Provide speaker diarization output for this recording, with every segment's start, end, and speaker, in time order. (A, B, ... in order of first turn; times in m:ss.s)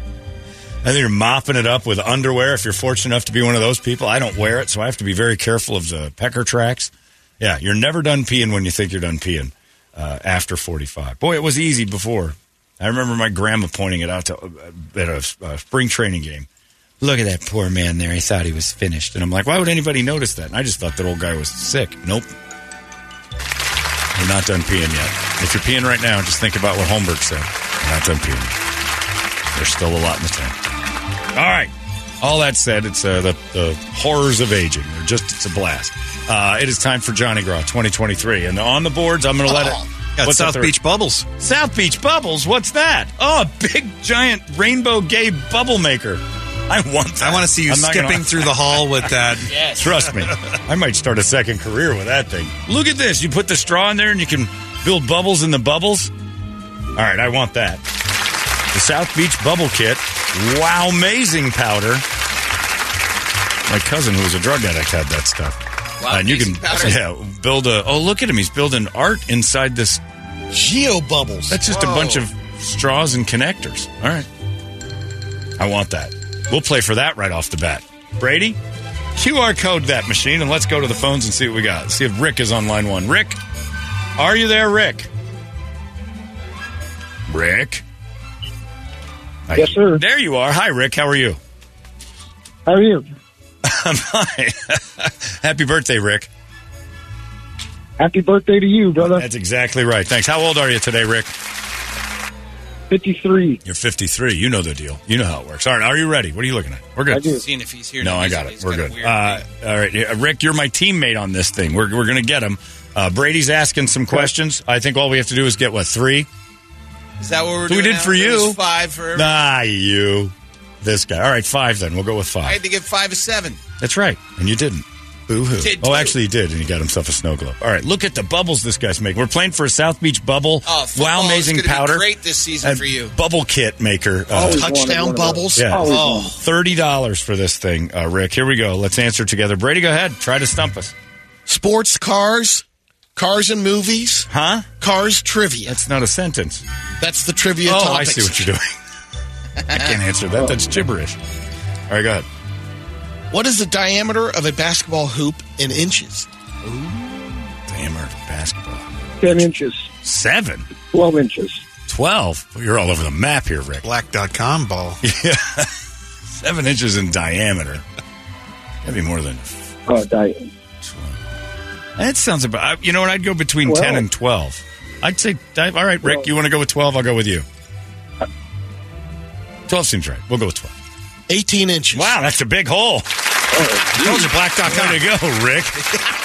0:00.8-0:16.5 A
0:17.0-0:22.3 A
0:24.2-0:28.5 A
0:29.5-0:30.6 A
0:31.3-0:40.7 A
0:39.5-0:39.8 B
0:40.2-0:41.3 C
0:41.4-0:49.1 A
0:47.2-0:50.3 C
0:49.5-0:50.1 D
0:49.7-0:56.1 A
0:57.0-0:57.8 A
0:58.7-1:02.0 A
1:03.7-1:10.0 A
1:06.0-1:07.0 D
1:10.5-1:11.6 B
1:11.5-1:14.3 A
1:11.7-1:12.2 D
1:15.6-1:18.6 A
1:19.2-1:23.4 A
1:24.2-1:25.1 A
1:27.3-1:27.8 A
1:29.5-1:31.4 A
1:29.6-1:30.0 E
1:32.7-1:33.1 E
1:33.6-1:36.3 A
1:38.0-1:39.3 E
1:39.0-1:41.3 A
1:42.9-1:43.6 E
1:43.6-1:47.3 A
1:47.1-1:47.4 E
1:47.4-1:49.4 D
1:48.0-1:56.3 A
1:57.2-1:59.4 D
1:57.7-1:58.6 A
1:59.2-2:02.6 A
2:02.4-2:03.6 D
2:03.8-2:12.1 A
2:05.6-2:06.2 D
2:10.7-2:13.1 D
2:12.6-2:14.7 A
2:14.3-2:16.4 E
2:14.5-2:16.3 B
2:15.6-2:20.9 A
2:15.8-2:16.3 D
2:21.5-2:22.6 B
2:23.2-2:25.8 B
2:24.3-2:24.7 A
2:25.7-2:26.6 A
2:27.0-2:28.5 B
2:27.6-2:28.8 A
2:29.7-2:31.2 A
2:31.9-2:32.3 A
2:33.3-2:36.3 B
2:37.7-2:39.3 A
2:39.2-2:39.9 E
2:40.0-2:40.7 A
2:40.9-2:41.6 E
2:41.9-2:43.8 A
2:43.8-2:45.0 C
2:45.0-2:45.7 A
2:46.4-2:47.8 A
2:48.8-2:49.7 A
2:49.9-2:50.5 E
2:50.8-2:51.2 A
2:52.0-2:57.4 A
2:53.6-2:54.0 E
2:59.7-3:00.7 A
3:01.3-3:02.2 B
3:01.9-3:03.1 A
3:03.5-3:03.9 E
3:03.9-3:05.0 C
3:04.0-3:05.8 A